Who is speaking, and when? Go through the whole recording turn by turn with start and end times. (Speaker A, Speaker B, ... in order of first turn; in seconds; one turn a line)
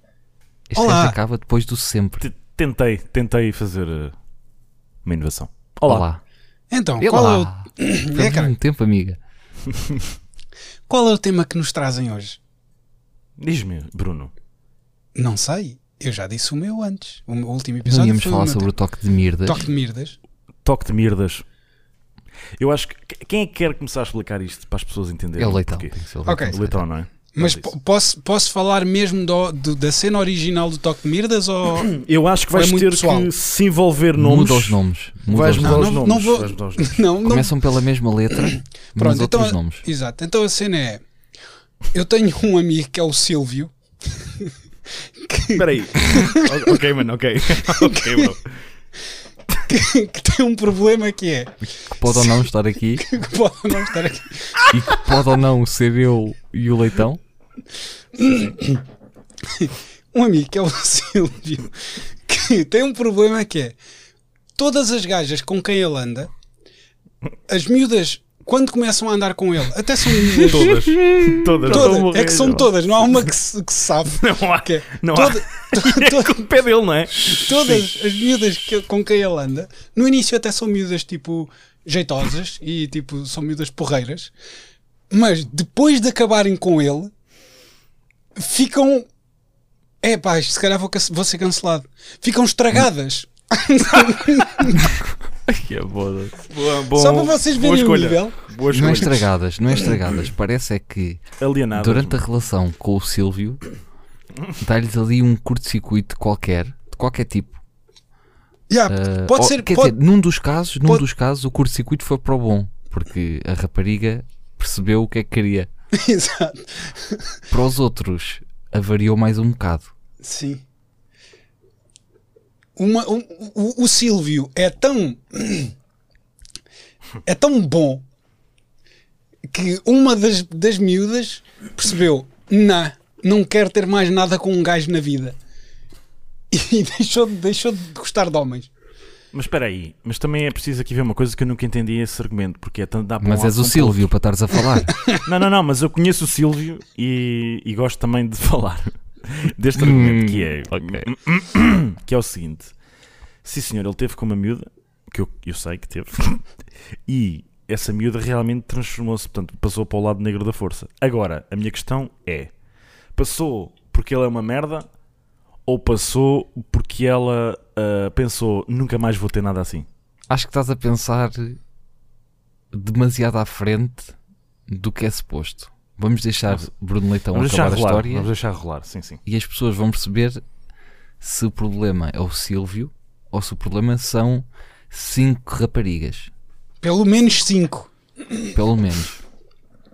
Speaker A: 0.7-2.3
Speaker B: 0.8-1.2
Speaker C: 2.2-4.2
Speaker C: 5.0-6.1
Speaker A: 5.9-6.2
Speaker B: 6.7-8.5
Speaker A: 7.0-9.2
Speaker B: 10.9-12.4
Speaker C: 13.4-14.3
Speaker B: 15.2-18.7
Speaker A: 17.9-19.7
Speaker B: 19.4-20.2
Speaker C: 20.6-21.4
Speaker C: 22.6-27.7
Speaker A: 25.4-26.8
Speaker B: 26.2-26.6
Speaker B: 27.3-31.9
Speaker C: 31.7-34.8
Speaker B: 32.5-33.3
Speaker A: 34.1-36.0
Speaker C: 35.3-37.1
Speaker B: 35.6-37.5
Speaker A: 37.2-39.9
Speaker B: 38.4-41.0
Speaker B: 41.9-43.7
Speaker B: 44.2-44.5
Speaker B: 45.2-46.6
Speaker C: 45.5-48.6
Speaker B: 47.7-48.3
Speaker B: 49.7-51.5
Speaker A: 51.7-53.1
Speaker B: 52.1-52.4
Speaker B: 53.0-54.7
Speaker A: 54.7-57.2
Speaker B: 58.1-58.8
Speaker B: 59.5-63.8
Speaker B: 64.6-66.3
Speaker B: 67.5-70.8
Speaker C: 70.4-73.3
Speaker A: 70.7-71.5
Speaker B: 71.6-76.4
Speaker C: 74.0-78.4
Speaker B: 77.3-84.3
Speaker B: 85.1-87.1
Speaker B: 88.4-89.1
Speaker B: 90.0-94.9
Speaker A: 94.7-96.4
Speaker C: 96.4-99.3
Speaker B: 96.9-98.3
Speaker A: 98.7-103.7
Speaker C: 101.4-102.2
Speaker A: 104.6-107.6
Speaker B: 108.7-110.0
Speaker A: 108.9-115.7
Speaker B: 116.0-117.2
Speaker A: 117.5-119.9
Speaker B: 120.2-120.6
Speaker B: 122.8-125.7
Speaker B: 127.2-128.0
Speaker B: 129.5-135.4
Speaker B: 136.5-138.7
Speaker C: 139.3-144.1
Speaker A: 143.2-144.9
Speaker C: 145.2-152.7
Speaker A: 149.8-151.1
Speaker C: 153.4-156.4
Speaker C: 157.1-162.5
Speaker C: 163.2-164.9
Speaker C: 165.7-169.9
Speaker A: 170.3-171.6
Speaker A: 172.7-174.2
Speaker A: 174.7-178.3
Speaker C: 177.3-179.2
Speaker A: 179.2-180.4
Speaker A: 181.2-186.3
Speaker B: 186.8-187.9
Speaker A: 188.5-189.2